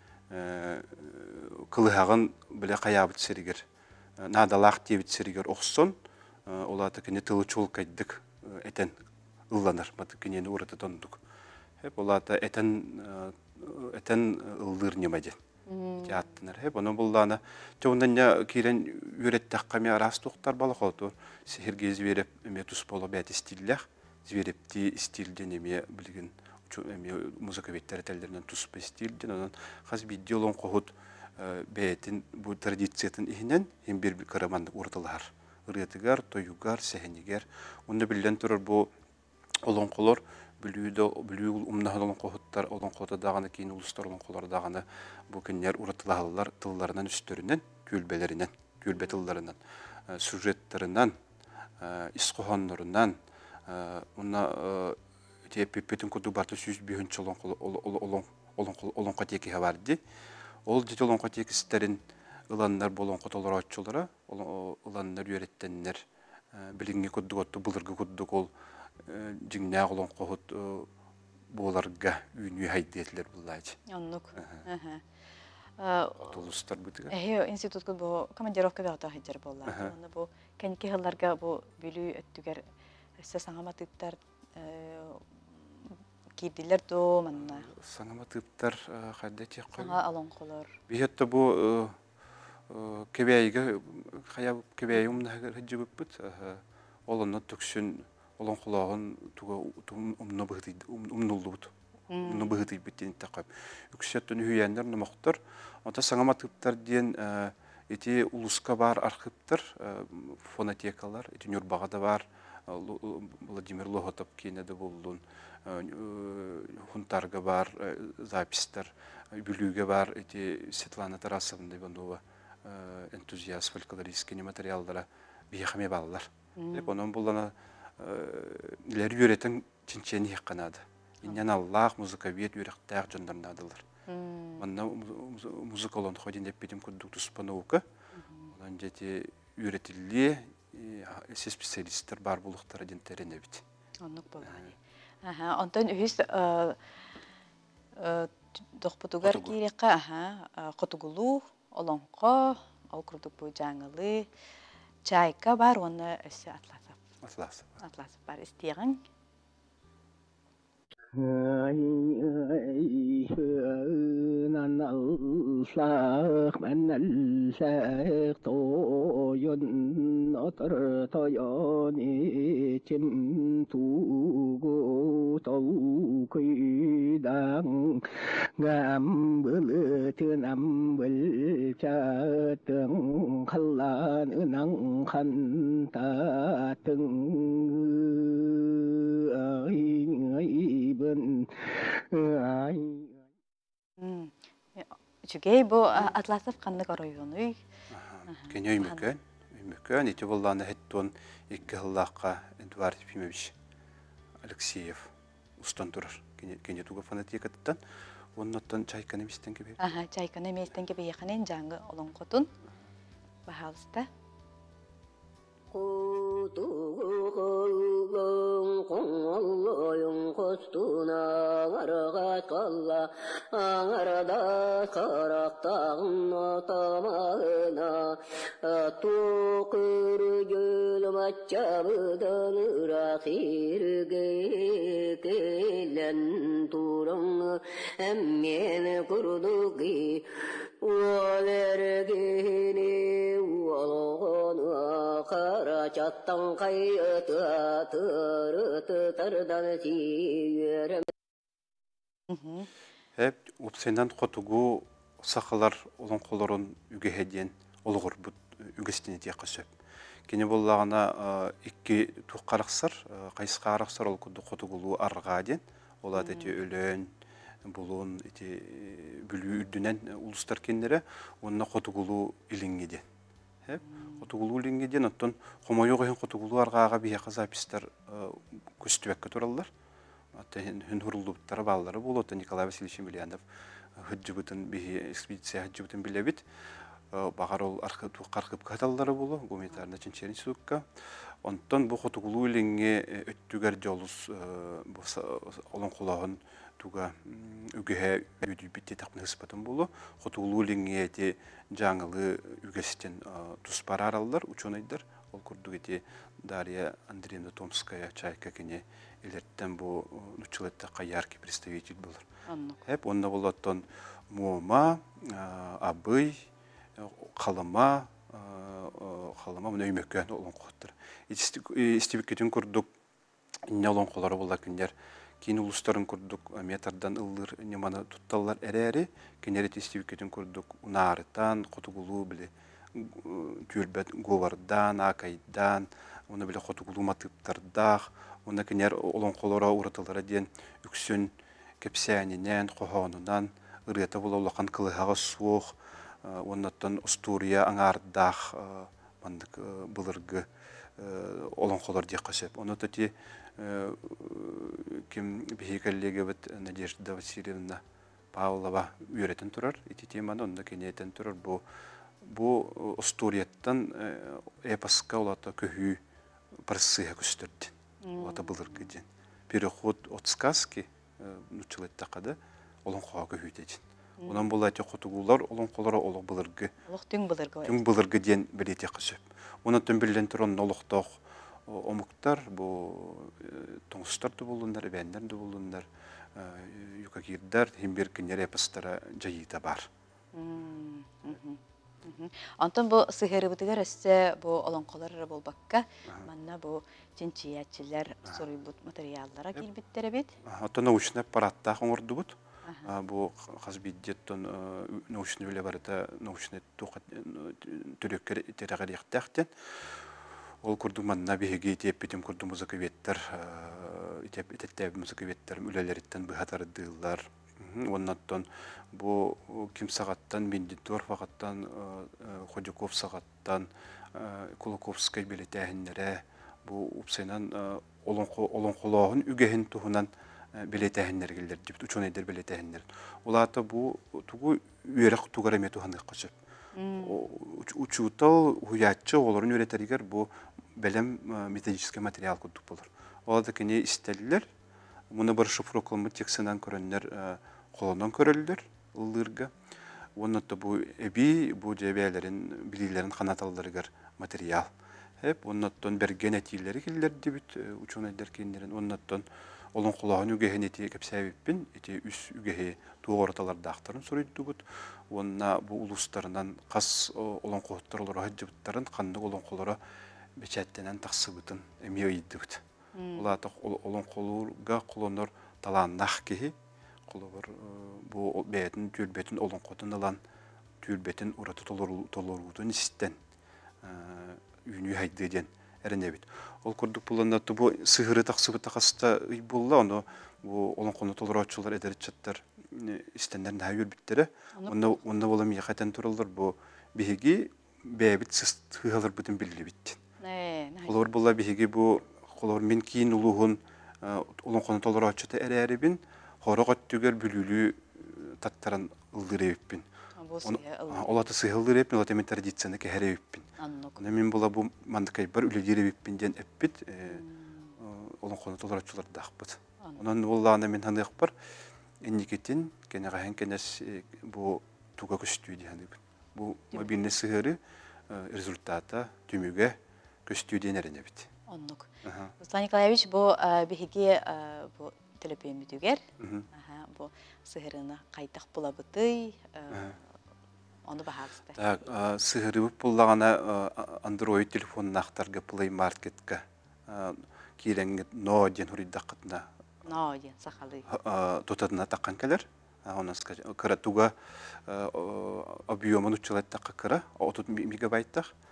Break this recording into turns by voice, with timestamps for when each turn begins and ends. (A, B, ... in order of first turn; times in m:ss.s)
0:00.3-0:03.6 A
0:04.2-0:05.9 A
0:06.5-0:08.9 A
0:09.5-0:11.2 A
0:11.8-0:15.4 A
0:15.7-0:16.3 B
0:16.0-0:38.9 A
0:39.6-0:51.1 A
0:48.9-0:49.2 B
0:51.8-0:53.2 A
0:53.7-0:55.0 A
0:55.5-1:00.0 A
1:00.6-1:06.0 A
1:06.5-1:08.5 A
1:09.0-1:10.9 A
1:11.5-1:13.8 A
1:13.9-1:15.0 B
1:14.4-1:14.6 A
1:15.8-1:16.4 B
1:16.2-1:17.1 A
1:17.1-1:22.6 B
1:19.7-1:19.9 A
1:23.2-1:25.3 B
1:25.8-1:27.7 B
1:27.4-1:30.0 A
1:29.8-1:30.7 B
1:30.9-1:32.0 A
1:32.7-1:41.7 A
1:42.1-1:42.5 B
1:42.2-2:13.8 A
2:06.6-2:06.9 B
2:14.1-2:14.6 B
2:14.6-2:17.8 A
2:18.1-2:18.5 B
2:18.5-2:23.6 A
2:24.0-2:26.8 B
2:24.4-2:24.7 A
2:28.0-2:34.3 B
2:29.2-2:29.5 A
2:35.0-2:37.0 B
2:37.2-2:37.8 A
2:37.8-2:39.0 B
2:41.1-2:58.0 C
2:58.6-3:13.2 C
3:14.0-3:17.6 B
3:17.9-3:23.5 A
3:18.3-3:19.0 B
3:24.4-3:27.8 A
3:28.4-3:29.8 A
3:29.8-3:32.5 B
3:33.5-3:34.1 B
3:35.7-4:00.3 D
4:00.8-4:11.1 D
4:12.3-4:12.7 B
4:13.2-4:19.7 A
4:20.3-4:27.1 A
4:26.1-4:26.6 B
4:27.7-4:33.0 A
4:33.6-4:39.7 A
4:33.8-4:34.2 B
4:40.4-4:43.4 A
4:44.0-4:46.4 A
4:47.1-4:50.8 A
4:51.4-5:12.3 A
5:12.5-5:12.8 B
5:12.8-5:16.4 A
5:17.0-5:22.9 A
5:23.6-5:57.8 A
5:58.3-6:01.6 A
6:02.2-6:06.0 A
6:06.6-6:16.7 A
6:08.0-6:08.9 B
6:14.2-6:14.5 B
6:16.9-6:17.8 B
6:17.6-6:29.9 A
6:30.3-6:40.3 B
6:40.4-6:50.1 A
6:42.7-6:42.9 B
6:50.6-7:16.4 A
7:16.8-7:17.2 B
7:17.0-7:24.4 A
7:25.1-7:29.5 A
7:30.2-7:34.7 A
7:35.2-7:49.8 A
7:50.4-7:52.6 A
7:53.0-7:53.3 B
7:53.2-7:56.5 A
7:57.1-8:00.2 A
8:00.8-8:03.2 A
8:03.8-8:20.0 A
8:14.6-8:15.0 B
8:20.2-8:21.1 B
8:20.9-8:29.9 A
8:30.2-8:31.2 B
8:30.4-8:37.2 A
8:33.6-8:34.0 B
8:37.1-8:37.8 B
8:37.8-8:41.3 A
8:42.0-8:47.6 A
8:46.7-8:47.0 B
8:48.1-8:51.3 A
8:51.5-8:56.0 B
8:52.0-8:52.3 A
8:56.2-8:56.5 A
8:56.5-8:59.9 B
8:59.7-9:00.0 A
9:00.9-9:01.6 B
9:01.5-9:09.5 A
9:09.8-9:10.8 B
9:10.9-9:18.3 A